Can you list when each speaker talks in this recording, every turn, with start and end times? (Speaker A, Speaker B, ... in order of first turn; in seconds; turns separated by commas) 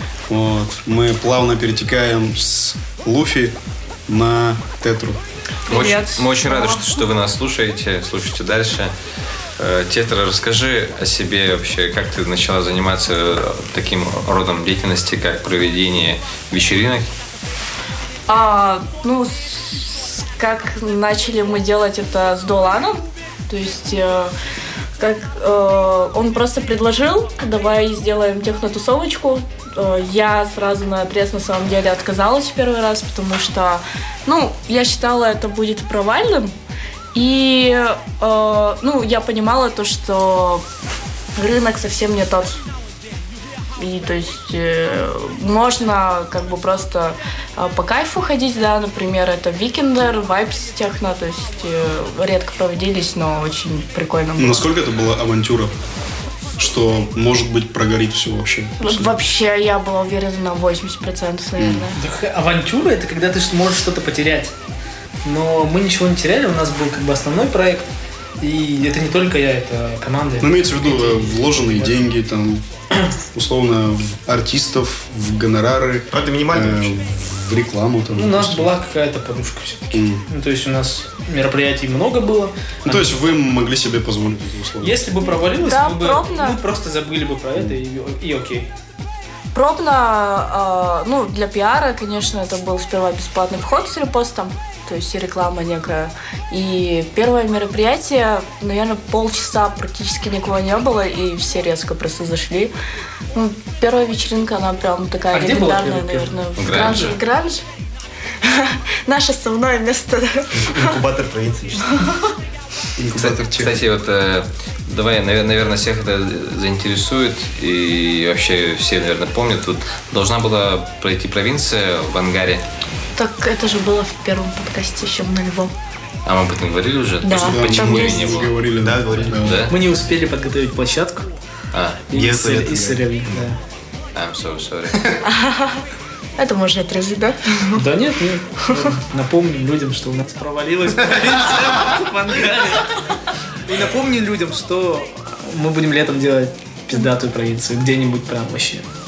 Speaker A: 0.3-5.2, Speaker B: 5.7-7.0, Speaker C: 5.7-8.9, Speaker C: 9.6-17.1, Speaker B: 18.3-24.3, Speaker B: 25.0-36.5, Speaker B: 37.1-40.6, Speaker B: 41.4-42.6, Speaker B: 43.8-54.7, Speaker A: 54.4-55.7, Speaker A: 56.6-59.2, Speaker B: 58.8-62.0, Speaker A: 61.6-61.9, Speaker D: 61.9-64.5, Speaker D: 65.2-67.9, Speaker D: 68.4-72.0, Speaker A: 70.4-72.7, Speaker A: 73.3-78.7, Speaker E: 76.1-77.0, Speaker D: 78.1-83.2, Speaker A: 79.9-80.2, Speaker A: 82.8-85.0, Speaker D: 84.8-88.7, Speaker B: 85.6-86.6, Speaker B: 89.5-102.7, Speaker B: 103.3-107.6, Speaker D: 105.3-107.2, Speaker C: 106.6-107.2, Speaker B: 108.4-111.0, Speaker E: 110.5-112.0, Speaker B: 111.9-112.3, Speaker A: 113.0-113.8, Speaker C: 113.1-122.7, Speaker B: 123.2-125.7, Speaker C: 126.2-128.5, Speaker B: 127.2-128.5, Speaker A: 127.3-129.7, Speaker E: 128.8-129.4, Speaker C: 129.4-129.7, Speaker D: 129.7-131.3, Speaker C: 131.7-132.0, Speaker D: 132.1-133.6, Speaker E: 132.1-133.5, Speaker C: 134.2-135.1, Speaker B: 135.2-135.8, Speaker B: 136.4-137.8, Speaker D: 137.8-143.1, Speaker D: 143.6-148.9